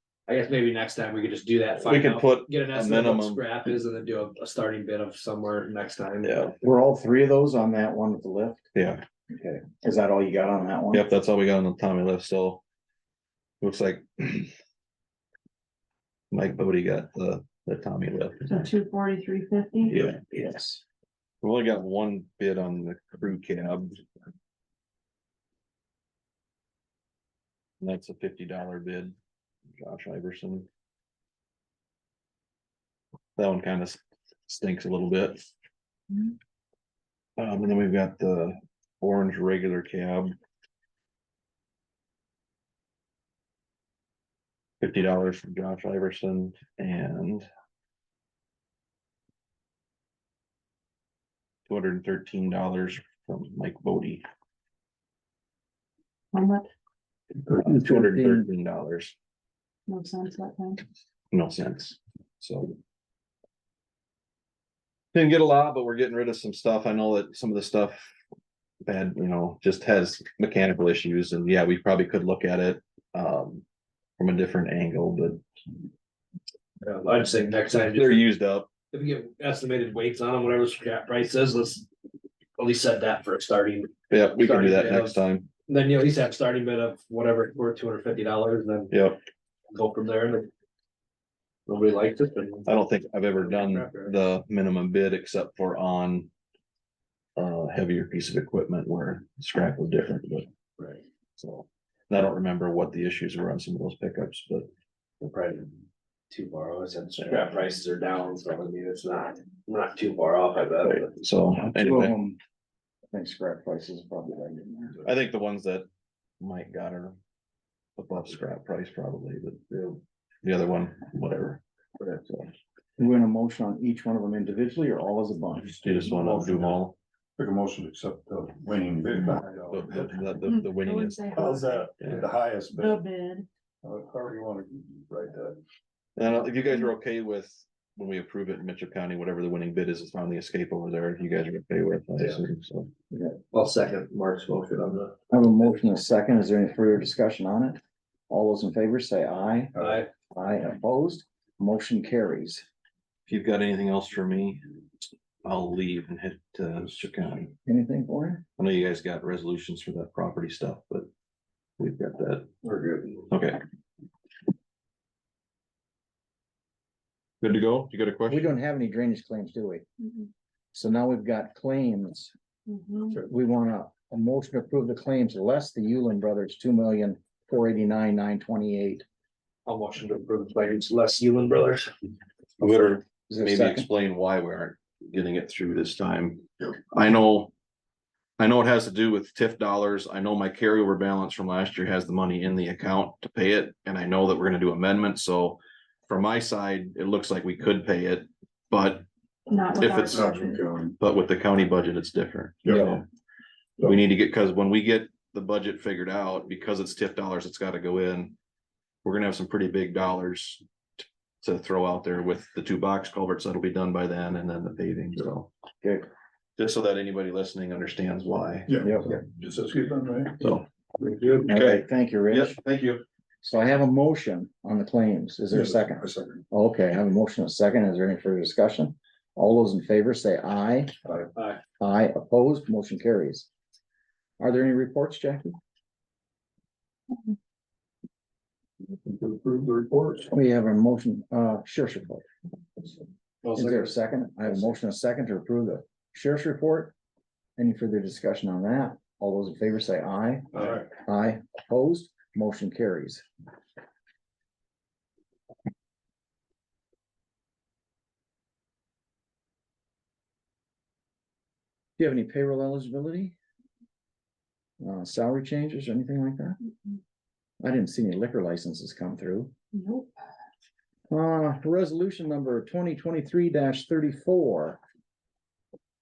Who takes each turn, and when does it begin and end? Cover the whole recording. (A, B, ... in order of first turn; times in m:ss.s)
0:00.3-0:06.4 A
0:01.8-0:03.4 B
0:06.2-0:06.5 B
0:06.6-0:08.7 C
0:08.7-0:09.0 B
0:09.3-0:11.0 C
0:10.9-0:12.6 B
0:13.6-0:14.5 B
0:16.3-0:18.7 B
0:18.5-0:19.9 D
0:19.8-0:20.2 B
0:19.9-0:20.8 C
0:21.4-0:24.0 B
0:27.8-0:29.1 B
0:29.8-0:30.7 B
0:33.4-0:35.5 B
0:37.4-0:40.3 B
0:44.8-0:47.5 B
0:51.7-0:54.2 B
0:56.3-0:56.7 D
0:57.5-0:58.5 C
0:57.6-0:59.1 B
0:59.9-1:00.8 D
1:01.3-1:02.7 B
1:05.1-1:08.1 B
1:08.8-1:13.6 B
1:14.2-1:15.4 B
1:16.8-1:18.2 A
1:17.8-1:18.7 B
1:18.9-1:21.8 A
1:22.6-1:28.9 A
1:24.1-1:25.5 B
1:28.9-1:29.2 B
1:29.7-1:30.5 A
1:31.7-1:32.7 A
1:32.7-1:36.3 B
1:33.3-1:34.1 A
1:37.4-1:40.5 B
1:41.4-1:44.7 B
1:45.2-1:45.7 A
1:46.3-1:51.1 A
1:47.2-1:47.4 B
1:50.8-1:52.1 B
1:51.6-1:52.4 C
1:53.1-1:55.0 C
1:55.0-1:55.9 B
1:56.4-1:57.2 B
1:58.0-2:02.5 B
2:03.0-2:05.7 C
2:05.7-2:06.8 E
2:05.8-2:07.0 B
2:07.4-2:10.3 E
2:09.7-2:11.4 B
2:10.5-2:12.0 D
2:11.3-2:13.0 E
2:12.0-2:12.3 B
2:12.7-2:13.5 D
2:13.8-2:15.6 E
2:16.2-2:22.9 B
2:23.5-2:25.2 A
2:25.3-2:27.8 C
2:28.3-2:29.7 C
2:29.8-2:30.1 A
2:30.3-2:32.6 C
2:33.3-2:34.6 B
2:35.4-2:37.5 B
2:37.6-2:38.4 C
2:38.6-2:41.1 B
2:41.8-2:42.5 B
2:42.6-2:43.2 A
2:43.3-2:43.6 B
2:47.4-2:48.5 B
2:48.3-2:49.8 C
2:50.7-2:52.3 C
2:52.7-2:53.2 D
2:53.3-2:59.0 C
2:59.6-3:01.9 A
3:02.6-3:07.5 B
3:03.3-3:03.9 C
3:08.4-3:19.0 B
3:19.5-3:20.6 D
3:19.8-3:20.3 B
3:20.1-3:21.0 E
3:21.0-3:23.0 B
3:22.6-3:23.0 E
3:23.8-3:28.3 B
3:29.0-3:30.6 B
3:31.4-3:35.5 B
3:35.8-3:36.1 C
3:36.6-3:38.7 B
3:38.7-3:40.4 E
3:38.8-3:39.0 C
3:40.4-3:40.6 B
3:41.0-3:41.5 A
3:41.4-3:42.6 C
3:41.5-3:43.0 B
3:43.4-3:50.9 C
3:45.5-3:46.4 E
3:51.8-3:53.5 C
3:54.4-3:55.6 C
3:59.0-4:00.3 E
4:00.3-4:02.2 C
4:03.4-4:03.9 A
4:03.5-4:06.9 C
4:04.4-4:04.7 A
4:07.6-4:13.2 C
4:10.6-4:10.8 A
4:22.0-4:23.3 C
4:24.8-4:26.6 C
4:27.6-4:29.5 C
4:29.7-4:30.1 D
4:31.1-4:34.8 C